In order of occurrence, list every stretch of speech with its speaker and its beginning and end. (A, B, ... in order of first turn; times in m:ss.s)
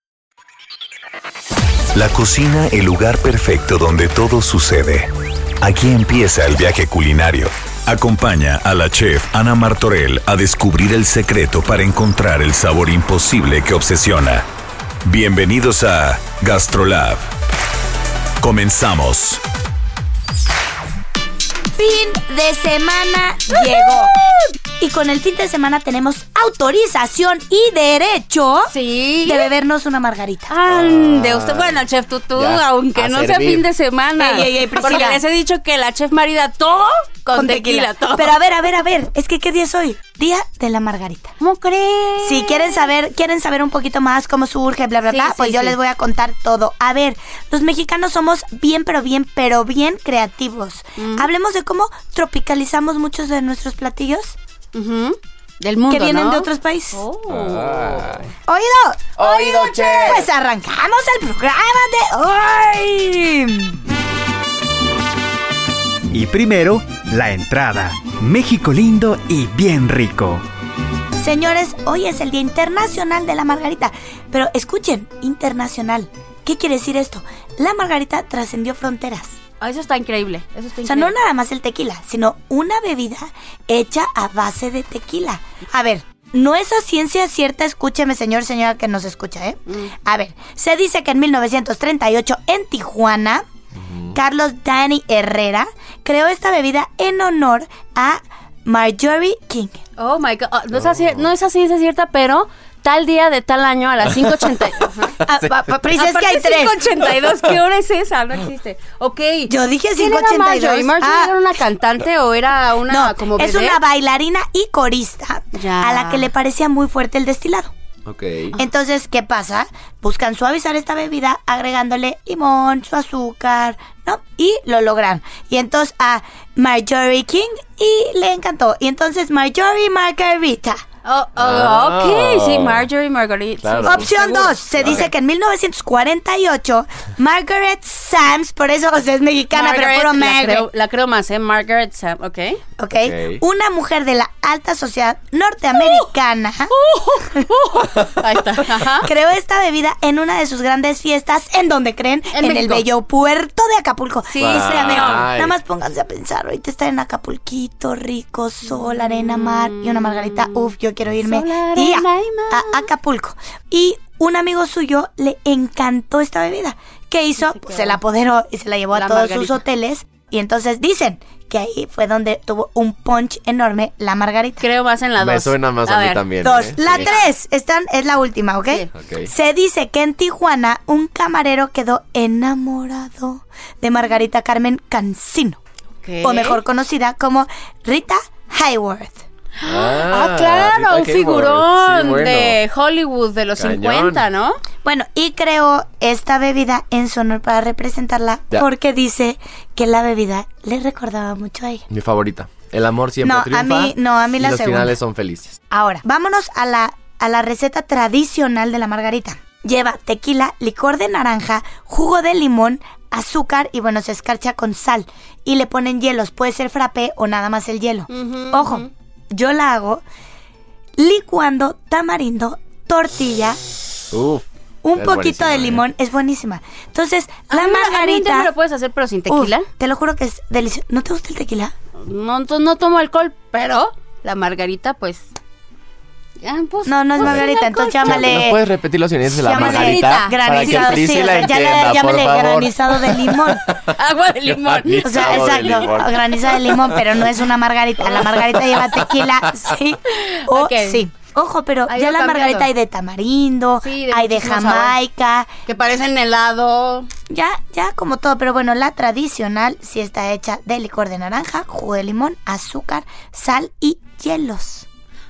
0:01.9-0:05.1 A
0:05.6-0:14.4 A
0:15.0-0:17.3 A
0:18.4-0:19.4 A
0:21.8-0:24.2 B
0:24.8-0:28.7 B
0:28.7-0:29.5 C
0:29.2-0:30.5 B
0:30.5-0:38.4 C
0:30.7-0:31.8 D
0:32.4-0:33.7 D
0:34.2-0:35.2 B
0:37.3-0:41.4 B
0:41.4-0:42.8 C
0:42.2-0:54.4 B
0:45.1-0:45.8 C
0:51.0-0:51.3 C
0:54.7-0:57.8 C
0:55.9-0:57.0 B
0:57.3-0:58.3 D
0:58.5-1:03.8 B
0:59.2-1:00.3 D
1:06.1-1:10.4 E
1:11.2-1:19.4 B
1:19.6-1:21.1 C
1:20.8-1:33.4 B
1:33.8-1:34.2 D
1:34.1-1:39.8 B
1:40.0-1:45.2 C
1:40.7-1:41.3 D
1:45.2-1:46.8 B
1:45.9-1:53.8 C
1:49.5-1:51.3 B
1:52.9-1:57.7 B
1:55.5-1:56.3 C
1:58.1-1:58.6 D
1:58.6-2:10.8 B
2:11.0-2:15.0 C
2:11.4-2:12.9 D
2:13.6-2:15.1 D
2:13.8-2:20.7 B
2:19.5-2:22.6 C
2:22.8-2:26.7 B
2:23.0-2:23.4 D
2:25.8-2:26.0 C
2:26.7-2:29.1 C
2:29.0-2:54.6 B
2:32.3-2:32.8 C
2:34.3-2:35.3 C
2:34.4-2:35.6 D
2:39.0-2:42.9 C
2:47.5-2:48.0 C
2:48.9-2:49.6 C
2:54.6-2:56.2 C
2:55.2-2:57.1 D
2:56.4-3:05.6 B
2:56.8-2:57.3 C
2:59.0-2:59.3 D
3:06.0-3:06.6 C
3:06.2-3:09.2 B
3:09.6-3:14.6 C
3:09.6-3:12.6 D
3:13.6-3:14.3 D
3:14.8-3:21.8 B
3:21.9-3:25.6 D
3:23.2-3:25.0 B
3:25.7-3:40.0 B
3:38.1-3:38.9 C
3:41.0-3:43.6 B
3:44.1-3:45.8 D
3:44.8-3:48.5 B
3:47.5-3:49.7 C
3:49.3-3:51.7 B
3:52.0-3:55.3 C
3:56.4-3:58.3 C
3:56.8-3:58.6 B
3:58.0-4:03.9 D
3:59.4-4:03.6 B
3:59.5-4:01.3 C
4:03.9-4:05.9 C
4:04.4-4:07.3 D
4:05.0-4:15.5 B
4:08.0-4:09.6 D
4:10.1-4:11.0 C
4:11.9-4:12.7 C
4:13.8-4:15.0 C
4:15.7-4:17.1 C
4:17.3-4:24.9 B